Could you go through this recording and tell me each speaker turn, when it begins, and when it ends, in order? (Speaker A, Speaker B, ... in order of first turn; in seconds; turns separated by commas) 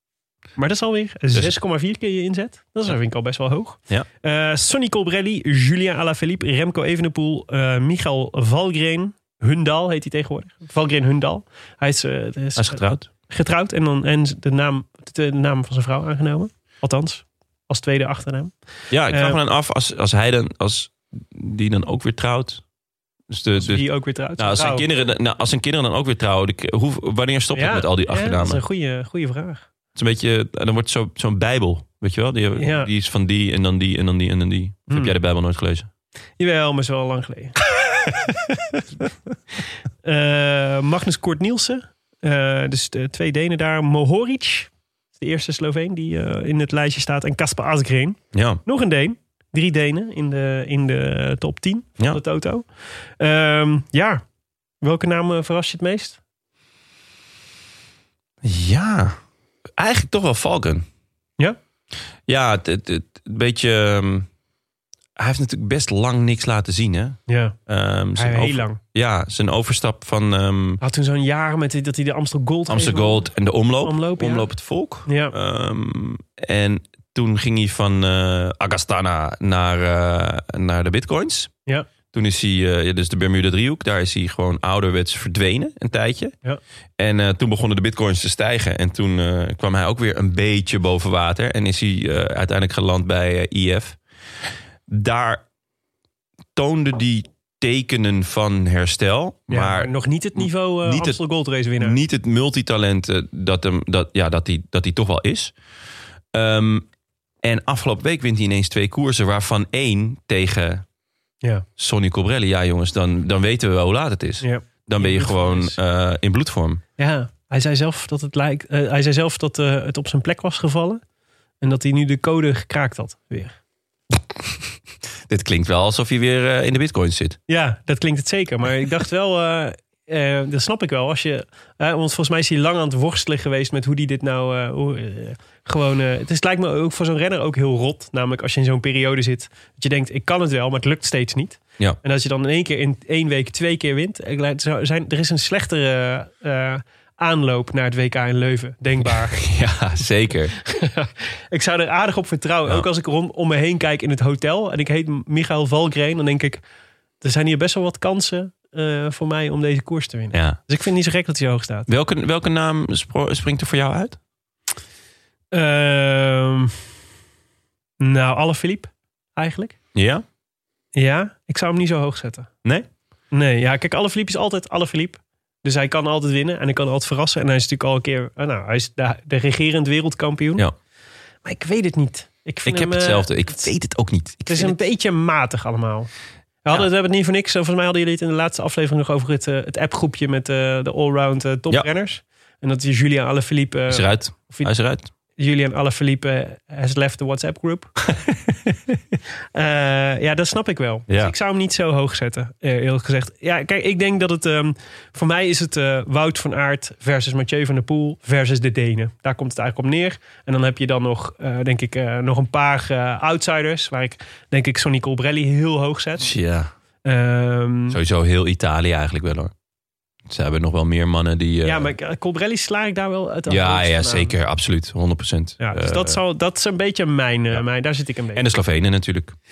Speaker A: 0.6-18.5, Speaker B: 12.6-13.1, Speaker B: 18.9-22.6, Speaker A: 19.1-19.4, Speaker B: 23.3-28.6, Speaker A: 23.6-24.9, Speaker A: 27.5-29.7, Speaker B: 29.9-35.9, Speaker A: 32.6-32.9, Speaker A: 36.4-37.6, Speaker A: 40.0-52.7, Speaker B: 48.3-48.6, Speaker A: 53.2-54.2, Speaker A: 54.8-56.2, Speaker B: 58.4-59.2, Speaker B: 59.8-60.9, Speaker B: 62.3-64.3, Speaker B: 65.2-70.8, Speaker A: 67.3-67.5, Speaker A: 68.2-68.8, Speaker A: 70.8-73.3, Speaker B: 72.7-81.5, Speaker A: 73.8-74.5, Speaker A: 75.1-75.3, Speaker B: 82.1-86.3, Speaker B: 87.0-94.0, Speaker B: 94.9-95.4, Speaker B: 96.6-101.2, Speaker A: 99.5-102.0, Speaker B: 101.8-105.5, Speaker B: 106.3-106.9, Speaker B: 107.4-110.8, Speaker B: 111.8-116.8, Speaker A: 114.4-115.8, Speaker A: 117.0-121.0, Speaker A: 121.6-123.6, Speaker B: 125.3-127.4, Speaker A: 127.5-149.4, Speaker B: 149.4-150.6, Speaker A: 150.7-156.6, Speaker A: 157.2-161.9, Speaker B: 160.3-160.6, Speaker B: 161.9-164.2, Speaker A: 165.5-166.8, Speaker A: 168.0-169.8, Speaker B: 169.9-170.2, Speaker A: 171.0-172.5, Speaker A: 173.3-180.7, Speaker A: 181.4-183.7, Speaker B: 182.7-184.8, Speaker A: 184.5-186.1, Speaker A: 186.7-194.7, Speaker B: 193.9-195.1, Speaker A: 195.3-198.0, Speaker A: 199.5-216.3, Speaker B: 216.2-216.7, Speaker A: 217.1-218.0, Speaker B: 217.9-219.5, Speaker B: 220.3-221.9, Speaker A: 221.7-224.3, Speaker B: 223.5-226.2, Speaker A: 225.6-228.4, Speaker B: 228.3-229.3